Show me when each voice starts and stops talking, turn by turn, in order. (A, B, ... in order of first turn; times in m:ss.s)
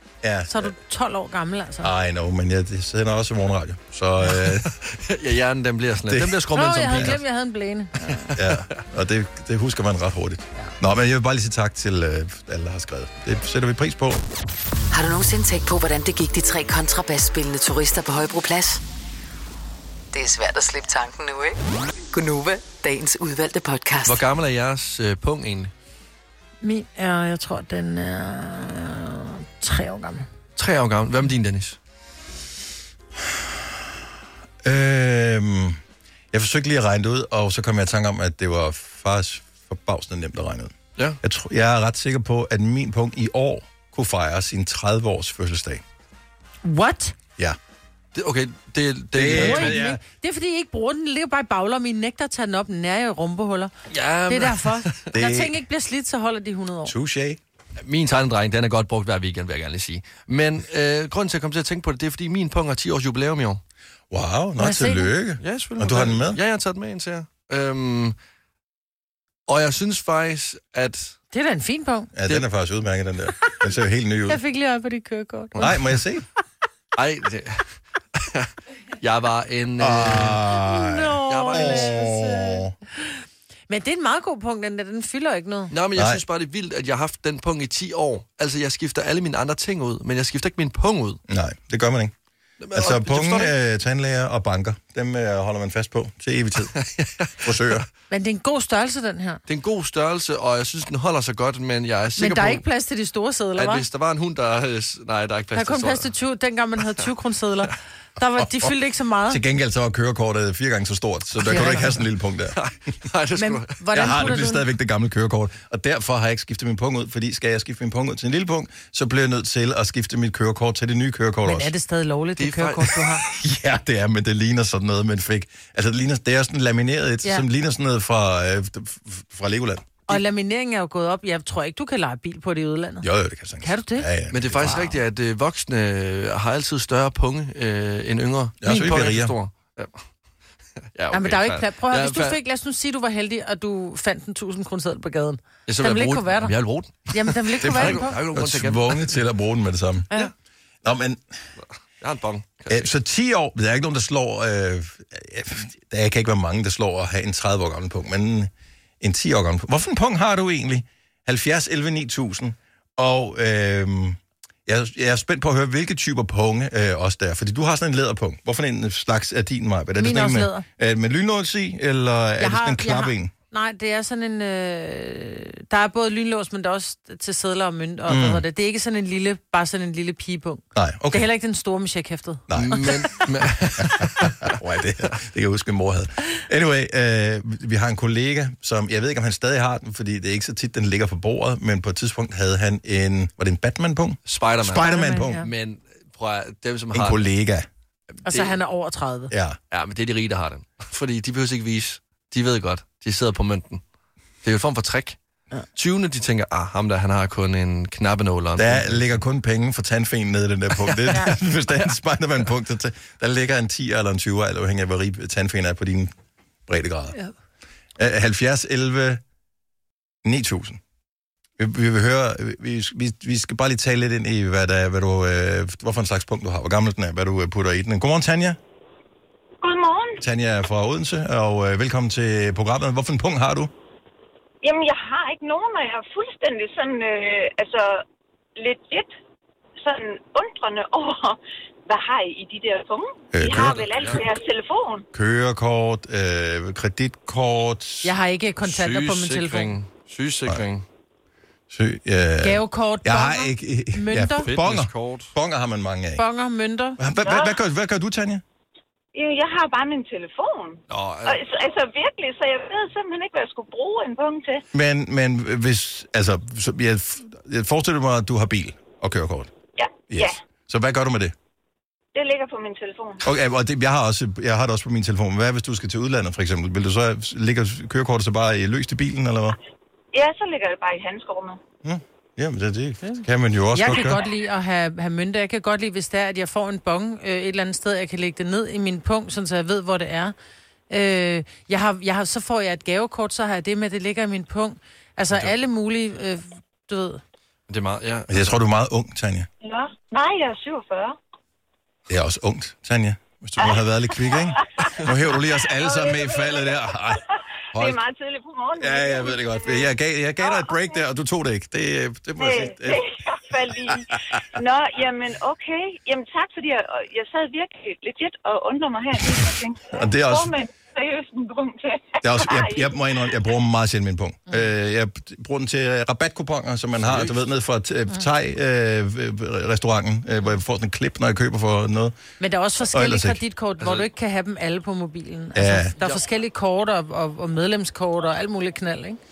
0:00.2-0:00.7 A
0:00.5-0:01.9 B
0:01.8-0:04.7 A
0:04.3-0:07.2 C
0:06.1-0:07.2 A
0:06.5-0:08.3 B
0:08.4-0:08.8 C
0:08.4-0:14.2 A
0:14.9-0:18.8 D
0:20.1-0:21.6 D
0:22.1-0:24.2 D
0:24.0-0:25.7 C
0:26.6-0:30.3 B
0:30.6-0:31.8 C
0:34.6-0:35.8 A
0:36.3-0:45.8 A
0:46.6-0:47.2 B
0:48.2-0:49.9 C
0:49.1-0:50.0 A
0:49.3-0:53.7 B
0:53.9-0:55.0 C
0:54.3-0:56.9 B
0:55.1-0:55.6 A
0:56.8-0:57.4 A
0:57.8-1:03.6 C
1:04.1-1:06.4 A
1:04.6-1:05.1 B
1:05.4-1:08.2 C
1:09.5-1:11.2 C
1:11.3-1:12.1 B
1:12.2-1:14.4 A
1:14.3-1:15.8 B
1:15.6-1:16.2 A
1:17.0-1:18.5 C
1:19.0-1:20.4 C
1:19.8-1:22.7 A
1:20.6-1:25.7 B
1:21.3-1:22.0 C
1:25.7-1:31.2 C
1:26.0-1:26.2 A
1:31.3-1:32.1 A
1:32.6-1:33.5 C
1:32.7-1:36.8 A
1:36.8-1:37.5 C
1:37.4-1:37.9 A
1:38.1-1:39.4 B
1:39.5-1:42.6 C
1:42.2-1:43.8 B
1:43.6-1:46.1 C
1:45.5-1:49.4 B
1:48.4-1:48.7 A
1:49.3-1:52.6 A
1:51.5-1:52.0 B
1:51.5-1:51.8 C
1:52.6-1:54.4 C
1:53.4-1:54.6 B
1:53.9-2:01.7 A
2:01.4-2:03.2 B
2:02.4-2:03.0 C
2:03.3-2:10.0 A
2:10.1-2:13.1 B
2:13.0-2:14.9 A
2:13.6-2:14.1 B
2:14.3-2:20.0 C
2:18.6-2:19.4 A
2:21.0-2:22.4 C
2:21.1-2:26.6 B
2:25.7-2:29.1 C
2:27.1-2:28.2 B
2:27.6-2:30.1 A
2:30.8-2:31.2 A
2:32.0-2:32.9 C
2:32.7-2:53.3 A
2:50.0-2:50.6 B
2:52.4-3:03.1 B
2:58.1-2:58.4 A
3:00.8-3:01.3 A
3:02.5-3:03.1 A
3:02.6-3:04.5 C
3:03.8-3:15.5 A
3:14.3-3:17.2 C
3:14.8-3:15.5 B
3:16.9-3:17.7 A
3:18.2-3:19.3 B
3:18.3-3:18.6 C
3:19.3-3:19.6 A
3:19.7-3:23.8 C
3:24.4-3:25.2 C
3:25.8-3:29.1 C
3:28.6-3:36.1 A
3:36.7-3:37.2 A
3:38.0-3:39.2 A
3:40.2-3:40.8 A
3:41.6-3:48.6 A
3:49.6-3:50.2 E
3:50.2-3:53.7 A
3:54.6-3:58.0 E
3:58.6-3:59.1 E
3:59.8-4:05.0 E
4:03.3-4:04.2 A
4:03.4-4:04.2 C
4:05.1-4:08.2 A
4:08.0-4:09.8 B
4:08.6-4:10.8 C
4:11.7-4:16.2 A
4:12.4-4:14.5 B
4:14.4-4:15.3 C
4:16.2-4:17.0 B
4:17.0-4:18.4 A
4:17.2-4:17.6 E
4:19.1-4:24.6 E
4:20.9-4:21.4 C
4:24.7-4:29.5 A
4:29.8-4:30.4 E
4:30.1-4:31.3 A
4:32.2-4:33.2 E
4:33.2-4:39.6 A
4:40.1-4:41.6 E
4:41.8-4:44.2 A
4:43.0-4:50.4 B
4:50.9-4:57.2 B
4:57.7-4:58.5 C
4:58.3-4:59.5 A
4:59.6-5:01.2 E
5:02.1-5:08.0 A
5:03.6-5:04.9 E
5:05.8-5:06.8 E
5:07.8-5:09.9 E
5:08.8-5:13.0 A
5:10.4-5:11.0 E
5:12.4-5:22.9 E
5:19.9-5:20.5 A
5:22.2-5:32.2 A
5:27.0-5:27.4 C
5:32.4-5:39.2 B
5:32.9-5:33.4 A
5:33.8-5:34.1 C
5:35.6-5:35.9 A